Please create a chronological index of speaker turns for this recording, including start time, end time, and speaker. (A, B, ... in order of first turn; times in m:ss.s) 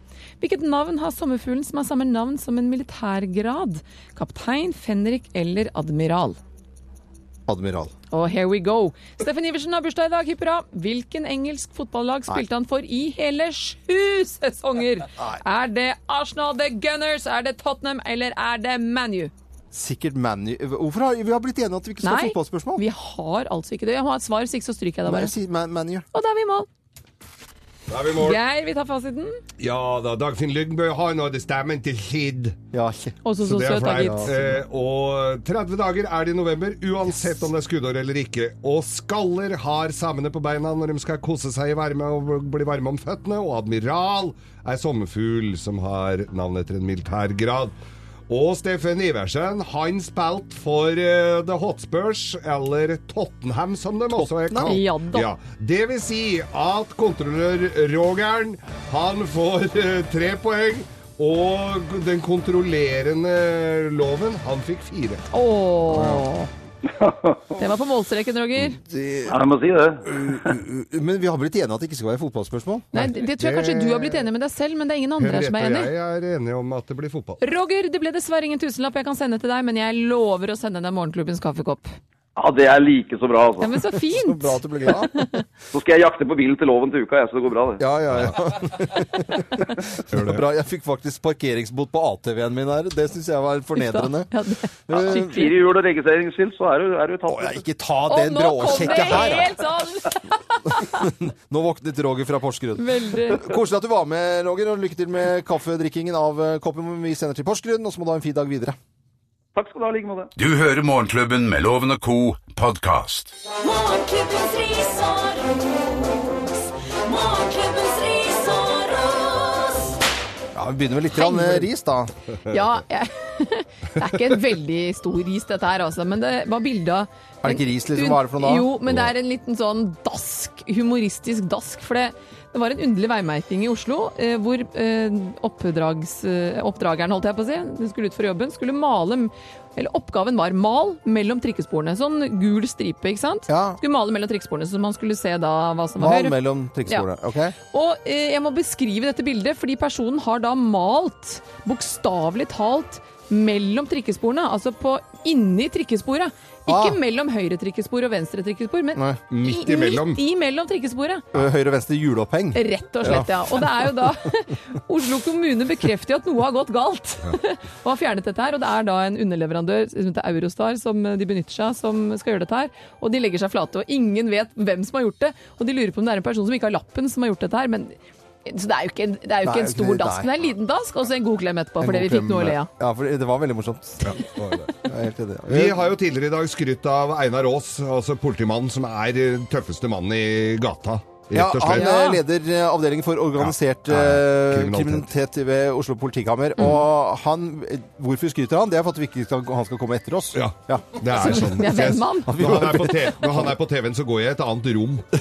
0:00.4-0:06.4 A
0:07.5-0:07.9 B
0:08.1-0:19.3 A
0:19.7-0:22.8 B
0:22.0-0:25.3 A
0:25.0-0:26.0 B
0:26.1-0:26.7 A
0:27.9-0:28.4 C
0:28.2-0:29.4 A
0:29.6-0:32.6 C
0:32.7-0:33.2 B
0:33.2-0:34.5 A
0:33.4-0:47.7 C
0:34.0-0:34.4 B
0:48.3-1:05.2 C
0:54.1-0:54.8 B
0:54.6-0:55.3 A
1:05.3-1:06.5 A
1:05.9-1:06.2 C
1:07.0-1:07.6 D
1:07.6-1:08.8 A
1:08.8-1:09.4 B
1:09.3-1:10.3 D
1:10.1-1:12.9 B
1:12.9-1:14.3 C
1:12.9-1:15.9 A
1:15.2-1:17.4 C
1:17.4-1:21.9 A
1:22.4-1:23.7 D
1:23.6-1:25.4 A
1:24.1-1:25.1 B
1:25.7-1:27.8 D
1:27.8-1:34.3 B
1:28.1-1:28.4 C
1:30.1-1:30.4 C
1:33.8-1:35.6 A
1:34.9-1:35.4 B
1:35.2-1:37.6 D
1:37.3-1:39.6 B
1:38.1-1:41.1 A
1:40.7-1:48.8 B
1:42.8-1:43.5 A
1:49.5-1:50.3 D
1:50.4-1:53.3 E
1:53.6-1:59.9 F
2:00.5-2:02.1 B
2:01.1-2:01.7 A
2:02.5-2:27.1 A
2:07.4-2:08.7 B
2:23.5-2:23.8 B
2:26.0-2:27.6 B
2:27.7-2:41.2 A
2:36.7-2:37.0 B
2:39.3-2:40.2 C
2:41.3-2:43.3 B
2:42.5-3:02.7 A
2:59.4-3:00.4 B
3:01.8-3:04.2 B
3:04.0-3:04.8 C
3:04.8-3:06.0 B
3:05.5-3:11.9 C
3:11.3-3:21.6 B
3:11.7-3:12.2 A
3:13.4-3:15.1 C
3:20.3-3:25.0 C
3:21.1-3:22.9 A
3:22.3-3:23.5 B